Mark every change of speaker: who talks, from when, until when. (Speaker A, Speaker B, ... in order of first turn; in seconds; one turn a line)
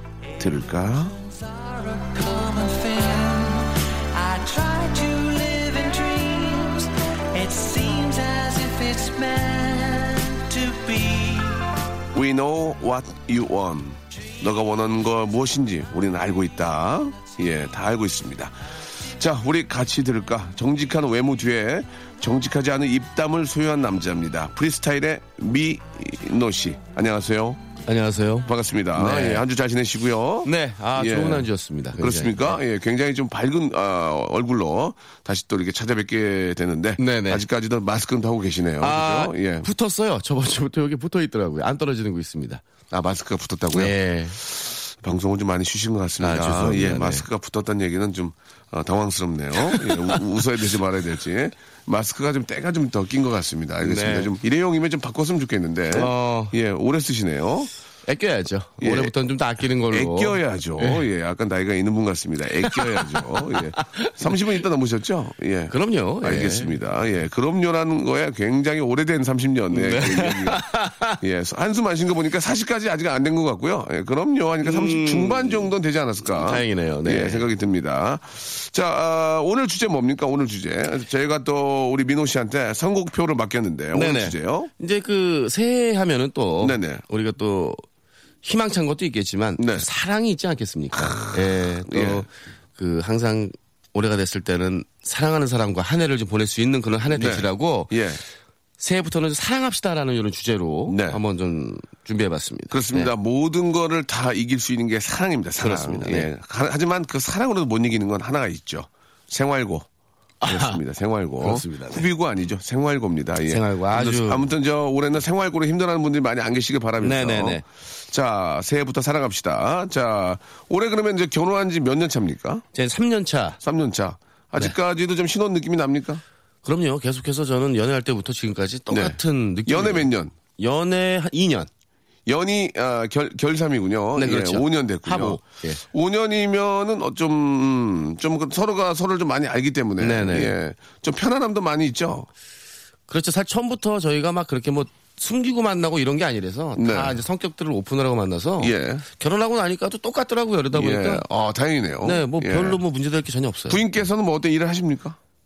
Speaker A: 0.4-1.2
Speaker B: 1.3-11.7
Speaker A: 12.1-18.6
Speaker A: 19.2-27.6
Speaker C: 27.9-29.4
Speaker A: 28.4-39.7
Speaker C: 30.4-32.6
Speaker C: 37.0-37.4
Speaker C: 38.8-42.6
Speaker A: 42.9-57.7
Speaker C: 43.7-44.4
Speaker C: 46.2-47.2
Speaker C: 49.6-50.2
Speaker C: 53.8-54.3
Speaker C: 55.9-56.5
Speaker C: 58.1-61.0
Speaker A: 58.8-59.1
Speaker A: 59.9-70.6
Speaker C: 62.6-64.4
Speaker C: 65.7-66.8
Speaker C: 69.7-71.2
Speaker A: 71.2-84.7
Speaker C: 74.6-75.7
Speaker C: 76.3-77.5
Speaker C: 83.9-87.8
Speaker A: 86.6-87.0
Speaker C: 88.4-97.9
Speaker A: 89.6-89.9
Speaker A: 90.9-92.2
Speaker A: 97.1-98.2
Speaker C: 98.8-103.1
Speaker A: 100.9-101.2
Speaker A: 102.7-109.9
Speaker C: 105.6-106.3
Speaker C: 110.4-110.8
Speaker A: 110.5-122.7
Speaker C: 111.4-112.1
Speaker C: 113.5-114.5
Speaker C: 117.0-117.6
Speaker C: 122.7-123.6
Speaker A: 123.6-126.2
Speaker C: 126.6-131.7
Speaker A: 128.9-130.3
Speaker A: 132.2-135.4
Speaker C: 134.2-135.8
Speaker A: 135.9-142.3
Speaker C: 140.0-140.6
Speaker C: 143.1-151.2
Speaker A: 146.8-147.2
Speaker A: 148.6-149.0
Speaker A: 150.7-152.8
Speaker C: 152.0-153.9
Speaker A: 153.7-155.2